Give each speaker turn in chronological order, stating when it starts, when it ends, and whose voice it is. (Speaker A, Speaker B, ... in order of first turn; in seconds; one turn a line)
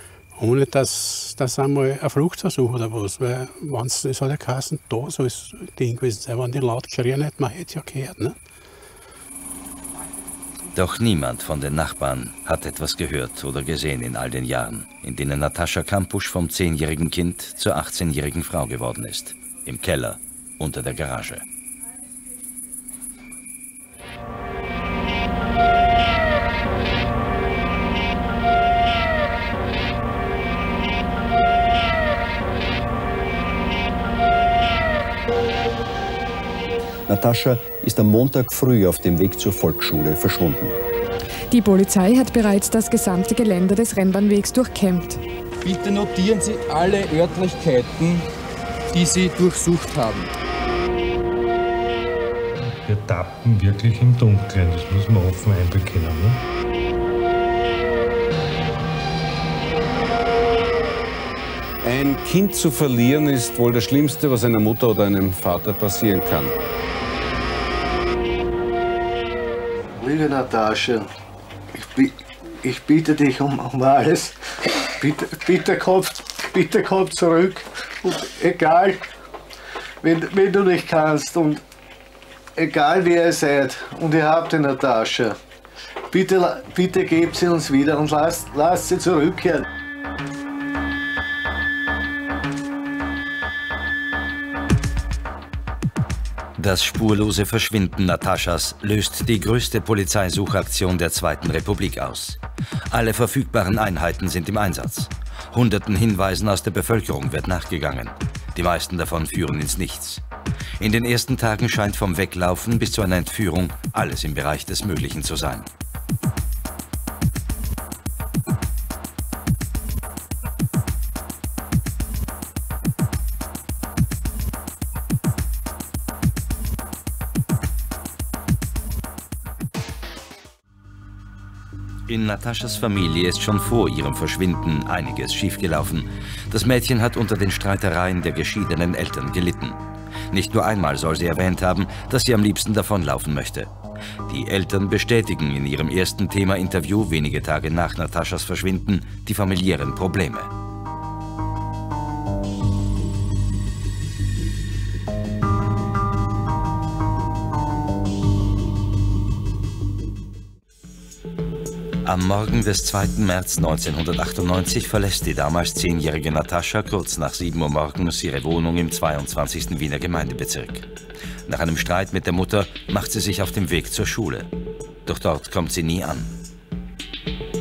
Speaker A: 0.4-8.4
Speaker B: 10.7-21.4
Speaker C: 37.1-40.8
Speaker D: 41.5-45.2
Speaker E: 45.6-48.3
Speaker E: 48.9-50.3
Speaker F: 52.7-56.4
Speaker G: 61.8-66.5
Speaker H: 70.0-71.1
Speaker H: 71.7-74.4
Speaker H: 75.0-79.0
Speaker H: 80.0-81.6
Speaker H: 82.6-85.4
Speaker H: 86.1-89.7
Speaker B: 96.6-102.4
Speaker B: 102.9-110.2
Speaker B: 110.8-115.7
Speaker B: 132.1-139.8
Speaker B: 140.3-143.7
Speaker B: 144.3-150.5
Speaker B: 162.0-170.8
Speaker B: 171.5-174.5
Speaker B: 175.1-176.3